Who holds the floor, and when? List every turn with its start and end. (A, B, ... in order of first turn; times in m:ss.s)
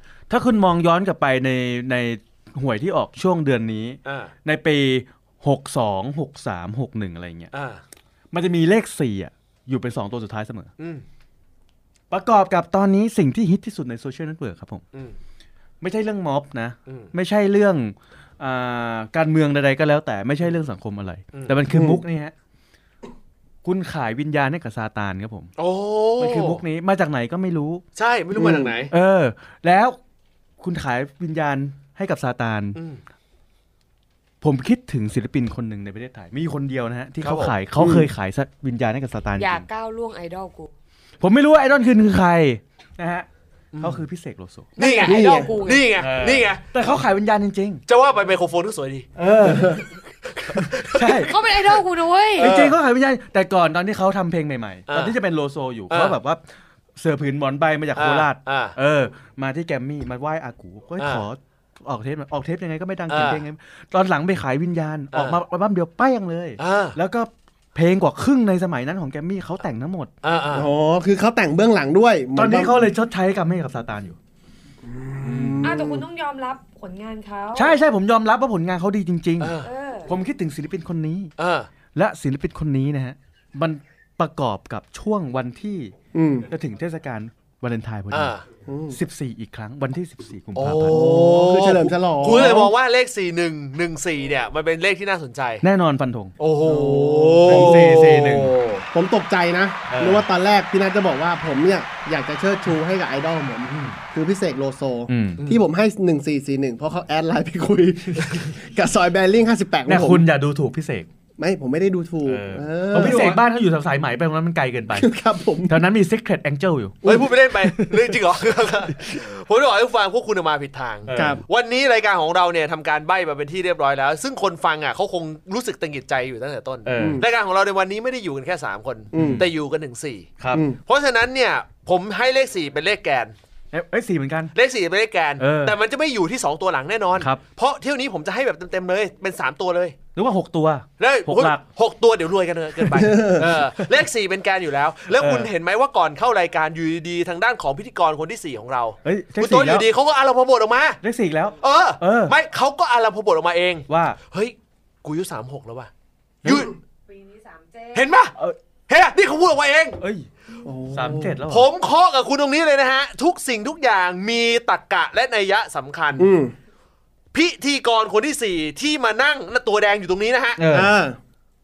0:00.3-0:07.5 A
0:04.0-0:04.3 B
0:07.5-0:07.8 B
0:08.3-0:10.7 A
0:10.8-0:11.0 B
0:12.1-0:14.8 A
0:15.8-0:22.3 A
0:21.7-0:22.0 C
0:23.6-0:25.5 A
0:25.6-0:26.6 B
0:26.2-0:27.8 A
0:28.0-0:28.9 B
0:28.4-0:28.7 C
0:28.9-0:30.0 A
0:30.6-0:32.8 A
0:32.8-0:33.0 B
0:34.4-0:39.7 A
0:37.2-0:37.6 B
0:37.8-0:38.1 C
0:39.4-0:40.7 D
0:41.2-0:43.3 A
0:43.7-0:44.0 B
0:43.8-0:44.8 A
0:44.8-0:45.9 D
0:44.8-0:46.6 B
0:45.0-0:45.6 C
0:46.0-0:47.8 A
0:47.9-0:49.1 B
0:49.2-0:49.8 A
0:49.5-0:49.8 C
0:50.2-0:51.3 B
0:50.6-0:51.3 A
0:51.2-0:52.5 D
0:52.4-0:52.8 B
0:52.4-0:56.4 A
0:54.9-0:55.2 B
0:55.9-0:56.2 B
0:57.0-1:10.1 A
0:58.0-0:58.8 B
1:01.0-1:01.3 B
1:03.1-1:03.4 B
1:05.1-1:05.4 B
1:06.6-1:07.0 B
1:10.2-1:10.7 B
1:10.5-1:12.8 C
1:12.4-1:14.2 A
1:14.8-1:16.1 C
1:15.2-1:15.7 A
1:15.6-1:17.7 D
1:17.5-1:21.3 A
1:19.4-1:19.7 B
1:19.6-1:20.1 D
1:21.4-1:21.7 B
1:21.9-1:25.9 A
1:26.1-1:26.5 C
1:26.5-1:28.3 A
1:28.1-1:28.4 B
1:28.7-1:29.0 C
1:28.9-1:31.1 A
1:30.6-1:35.6 B
1:30.9-1:32.7 C
1:35.6-1:36.3 A
1:36.4-1:38.8 B
1:36.6-1:37.8 C
1:37.4-1:38.5 A
1:38.9-1:50.3 C
1:39.9-1:40.2 A
1:43.7-1:44.0 A
1:45.1-1:45.4 A
1:48.2-1:48.5 A
1:49.8-1:51.1 A
1:51.4-1:53.4 C
1:52.3-1:55.1 A
1:54.9-1:55.8 C
1:55.7-1:57.0 A
1:57.0-2:10.3 B
1:57.0-1:57.3 C
1:57.6-1:58.0 A
2:01.0-2:01.4 A
2:01.1-2:01.4 C
2:06.8-2:07.2 A
2:07.0-2:07.3 C
2:09.1-2:09.4 C
2:09.2-2:09.4 A
2:10.4-2:10.7 A
2:10.5-2:10.8 C
2:10.8-2:13.3 B
2:13.7-2:14.5 A
2:14.6-2:20.0 B
2:15.4-2:15.8 A
2:17.2-2:17.4 A
2:20.2-2:21.6 A
2:21.0-2:31.0 B
2:22.9-2:23.5 C
2:25.1-2:25.5 A
2:29.0-2:29.9 A
2:31.0-2:32.4 A
2:31.6-2:35.9 B
2:33.9-2:34.2 A
2:36.4-2:36.7 A
2:36.4-2:36.7 B
2:37.1-2:38.1 D
2:37.9-2:38.4 B
2:38.9-2:40.0 B
2:40.0-2:40.3 A
2:40.6-2:41.4 C
2:40.9-2:41.7 A
2:41.5-2:46.3 B
2:46.2-2:46.6 C
2:47.3-2:50.7 B
2:50.6-2:50.9 A
2:50.7-2:51.2 C